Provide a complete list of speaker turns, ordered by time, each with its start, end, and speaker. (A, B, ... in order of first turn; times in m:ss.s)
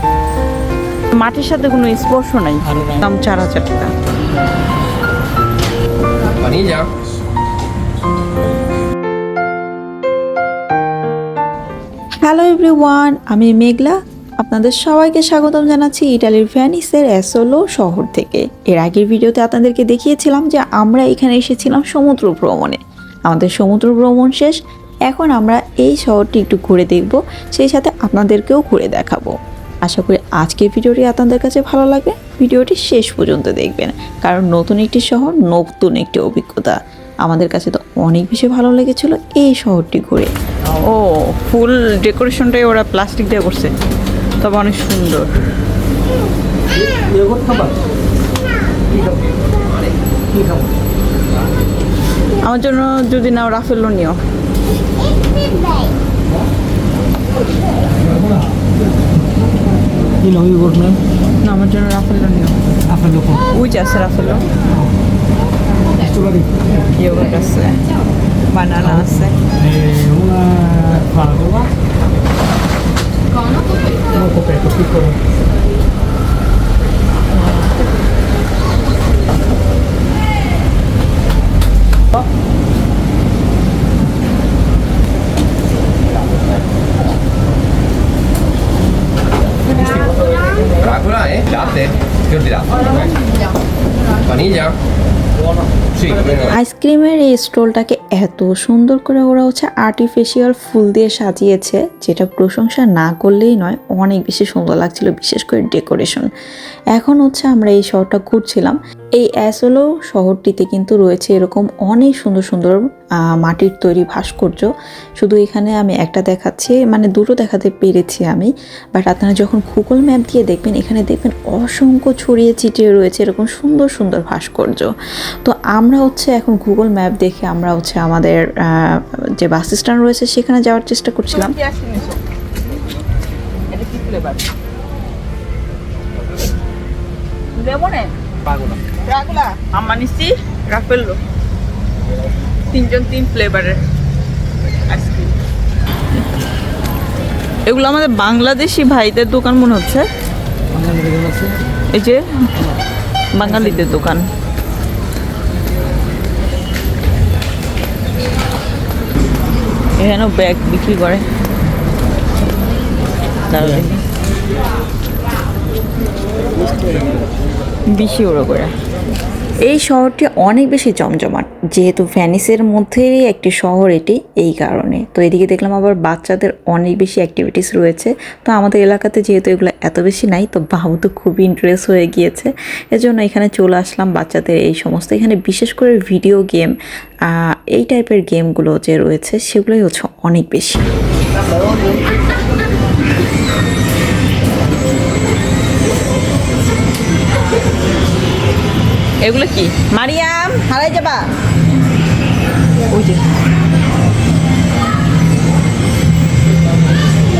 0:01.1-0:03.9 A
0:02.6-0:03.1 B
0:12.2-0:40.3 C
0:40.8-0:43.7 A
0:44.4-0:45.3 A
0:46.8-0:47.8 B
0:48.9-0:49.5 B
0:50.3-0:50.8 B
0:52.4-0:54.2 A
0:58.0-0:58.7 B
1:00.2-1:01.0 B
1:01.4-1:02.6 A
1:02.9-1:03.5 B
1:03.5-1:04.4 A
1:06.0-1:06.8 B
1:07.0-1:07.8 A
1:08.5-1:09.4 A
1:08.8-1:11.7 B
1:14.1-1:15.2 B
1:17.3-1:17.7 A
1:29.8-1:31.6 B
1:36.1-1:36.4 B
1:36.5-1:46.3 C
1:46.9-2:11.5 C
2:11.3-2:12.2 A
2:13.7-2:14.5 A
2:17.6-2:18.1 A
2:18.9-2:21.2 A
2:22.7-2:23.8 A
2:24.9-2:25.3 A
2:27.7-2:30.1 A
2:30.7-2:31.6 B
2:31.9-2:32.3 A
2:33.4-2:34.2 A
2:33.5-2:33.9 B
2:40.0-2:41.2 A
2:43.5-2:44.0 A
2:47.9-2:48.7 A
2:49.6-3:10.8 C
3:19.2-3:21.3 A
3:22.9-3:23.2 A